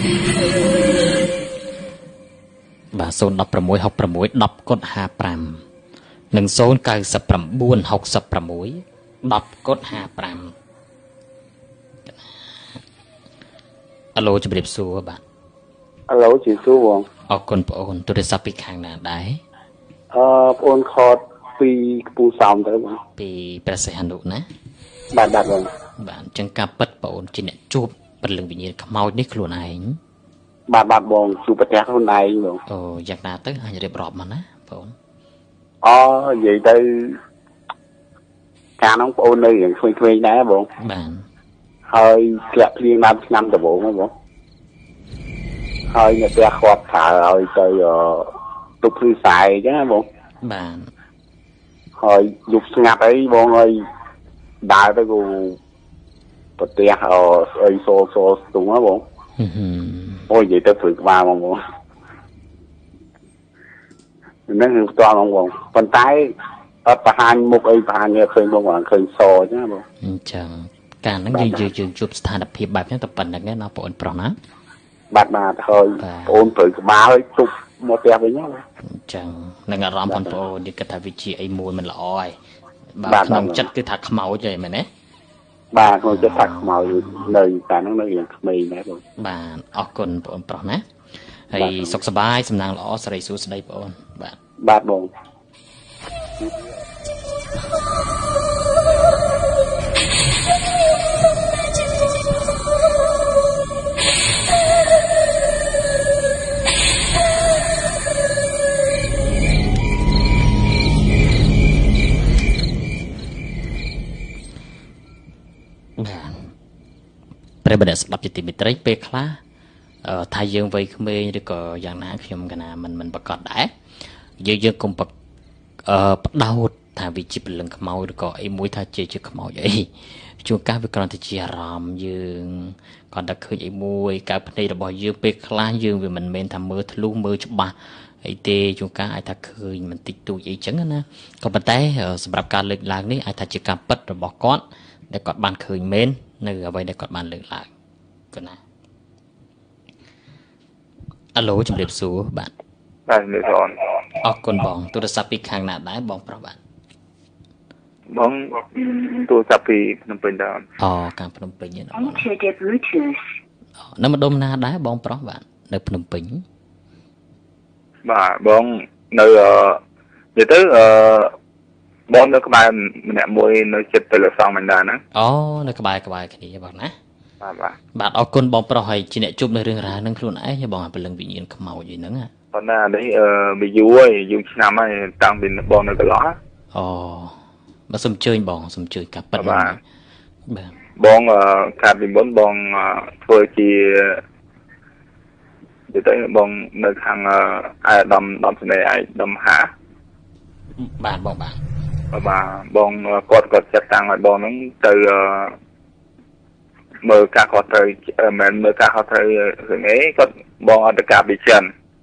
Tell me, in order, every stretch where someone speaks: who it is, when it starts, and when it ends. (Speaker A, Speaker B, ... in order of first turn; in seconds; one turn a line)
Speaker A: 2.9-5.6
Speaker A: 6.3-10.5
Speaker A: 12.1-12.8
Speaker A: 14.1-15.2
Speaker B: 16.1-17.1
Speaker A: 17.3-19.4
Speaker B: 20.1-23.0
Speaker A: 23.2-24.4
Speaker B: 25.1-25.7
Speaker A: 26.0-30.0
Speaker B: 30.7-32.6
Speaker A: 32.7-34.9
Speaker B: 35.8-37.2
Speaker B: 38.8-40.7
Speaker A: 40.8-41.2
Speaker B: 41.9-44.1
Speaker B: 45.9-48.3
Speaker B: 48.8-50.0
Speaker A: 50.4-50.9
Speaker B: 52.0-53.8
Speaker B: 54.6-55.6
Speaker B: 56.6-59.0
Speaker A: 59.4-60.3
Speaker B: 60.3-61.6
Speaker B: 64.5-66.3
Speaker B: 66.8-69.8
Speaker A: 70.0-74.3
Speaker B: 71.4-71.6
Speaker B: 75.1-78.6
Speaker A: 76.0-76.5
Speaker A: 78.8-82.3
Speaker A: 83.0-84.9
Speaker B: 83.1-83.6
Speaker B: 85.7-89.0
Speaker A: 86.0-87.3
Speaker A: 89.2-90.8
Speaker A: 91.5-94.4
Speaker B: 91.5-91.9
Speaker B: 94.6-95.1
Speaker A: 116.0-116.5
Speaker A: 117.6-119.4
Speaker A: 120.0-123.7
Speaker A: 124.4-125.1
Speaker A: 125.8-147.7
Speaker A: 148.3-148.6
Speaker A: 151.3-152.5
Speaker C: 153.1-153.8
Speaker A: 154.2-156.6
Speaker C: 158.1-160.6
Speaker A: 160.8-162.3
Speaker A: 163.8-166.4
Speaker C: 168.0-169.8
Speaker C: 170.3-171.3
Speaker C: 172.1-175.0
Speaker A: 175.1-176.9
Speaker C: 177.4-177.8
Speaker A: 177.9-182.3
Speaker C: 182.5-186.3
Speaker A: 186.7-187.4
Speaker A: 187.9-189.8
Speaker C: 189.4-189.8
Speaker A: 190.5-190.7
Speaker C: 191.0-194.2
Speaker C: 195.9-199.7
Speaker A: 200.8-201.6
Speaker C: 202.1-205.6
Speaker C: 207.0-211.7